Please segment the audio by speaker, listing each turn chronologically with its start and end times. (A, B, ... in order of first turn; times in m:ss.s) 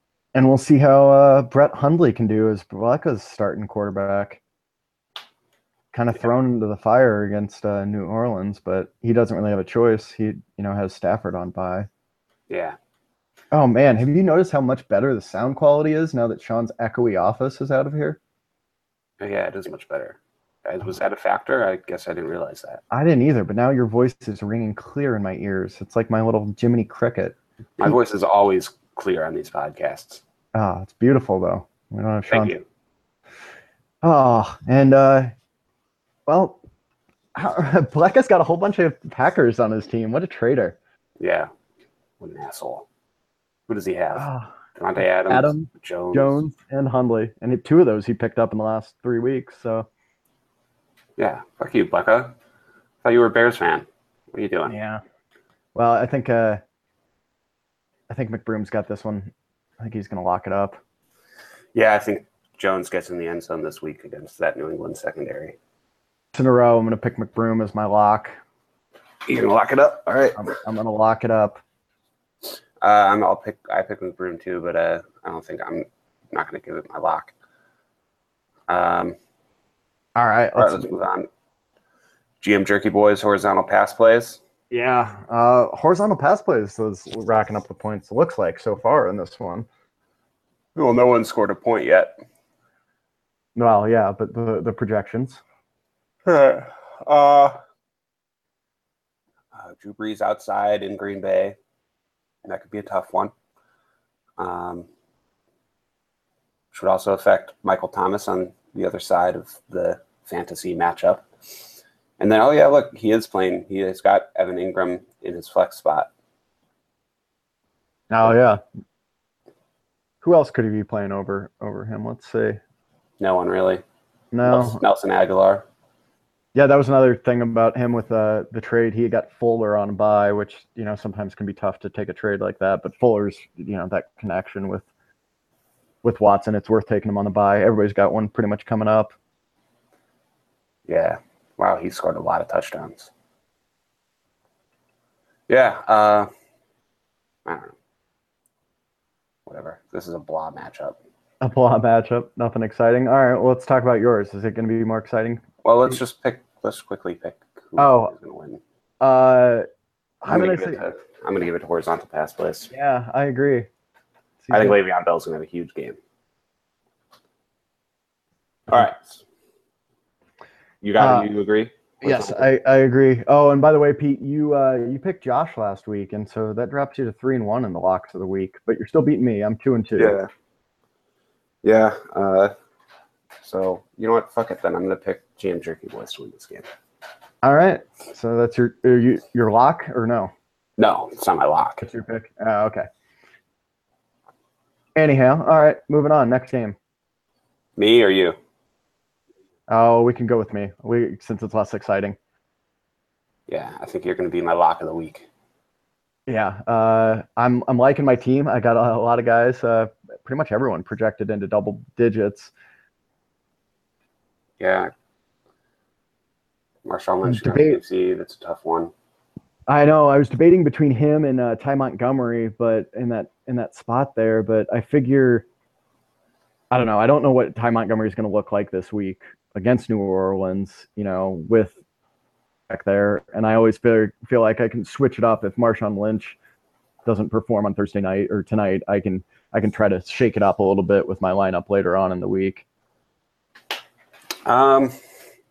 0:00.3-0:04.4 A
0:05.9-0:11.9 A
0:12.5-0:12.8 B
0:13.5-0:18.2 A
0:19.2-0:22.8 B
0:22.9-0:27.9 A
0:27.8-0:30.2 B
0:30.5-0:32.5 A
0:32.3-0:32.6 B
0:34.0-0:35.3 A
0:36.3-0:36.6 A
0:37.3-0:40.8 A
0:41.2-0:41.5 B
0:42.2-0:42.8 B
0:43.7-0:46.4 B
0:44.1-0:44.5 A
0:45.3-0:49.9 A
0:51.2-0:52.3 B
0:53.0-0:54.7 B
0:54.7-0:55.0 A
0:55.7-0:56.6 A
0:58.1-1:00.8 A
1:01.7-1:05.6 B
1:06.3-1:08.4 A
1:09.2-1:10.4 B
1:10.4-1:11.6 A
1:12.8-1:17.3 B
1:18.7-1:19.2 B
1:20.2-1:20.8 A
1:20.6-1:21.3 B
1:22.4-1:24.4 B
1:24.7-1:29.7 A
1:30.7-1:32.1 B
1:33.5-1:35.4 A
1:36.2-1:37.6 B
1:39.5-1:41.6 B
1:42.4-1:43.3 B
1:44.4-1:44.9 B
1:46.7-1:51.3 B
1:52.2-1:56.1 B
1:58.1-1:58.6 A
2:00.2-2:02.6 A
2:03.2-2:03.8 B
2:04.3-2:04.8 A
2:04.4-2:05.6 B
2:06.5-2:14.8 A
2:16.0-2:19.1 A
2:20.9-2:23.1 B
2:25.5-2:26.3 B
2:27.4-2:27.7 B
2:29.5-2:31.0 B
2:31.4-2:35.9 A
2:35.6-2:38.6 B
2:37.8-2:38.1 A
2:39.0-2:39.6 A
2:40.2-2:40.8 A
2:40.3-2:42.7 B
2:42.7-2:43.7 A
2:44.4-2:44.8 A
2:44.5-2:46.0 B
2:48.7-2:49.2 B
2:50.8-2:52.5 B
2:51.0-2:51.3 A
2:52.0-3:00.2 A
3:00.0-3:00.3 B
3:01.6-3:02.5 B
3:03.4-3:06.7 B
3:07.4-3:10.3 A
3:10.8-3:11.8 B
3:11.8-3:12.9 A
3:15.0-3:16.8 A
3:17.8-3:18.4 B
3:19.7-3:22.2 A
3:23.5-3:25.3 B
3:26.3-3:32.5 A
3:34.6-3:34.9 B
3:36.8-3:38.9 B
3:37.2-3:37.8 A
3:39.7-3:45.4 A
3:46.7-3:51.8 A
3:52.7-3:56.4 A
3:57.0-4:02.6 A
4:04.4-4:05.0 B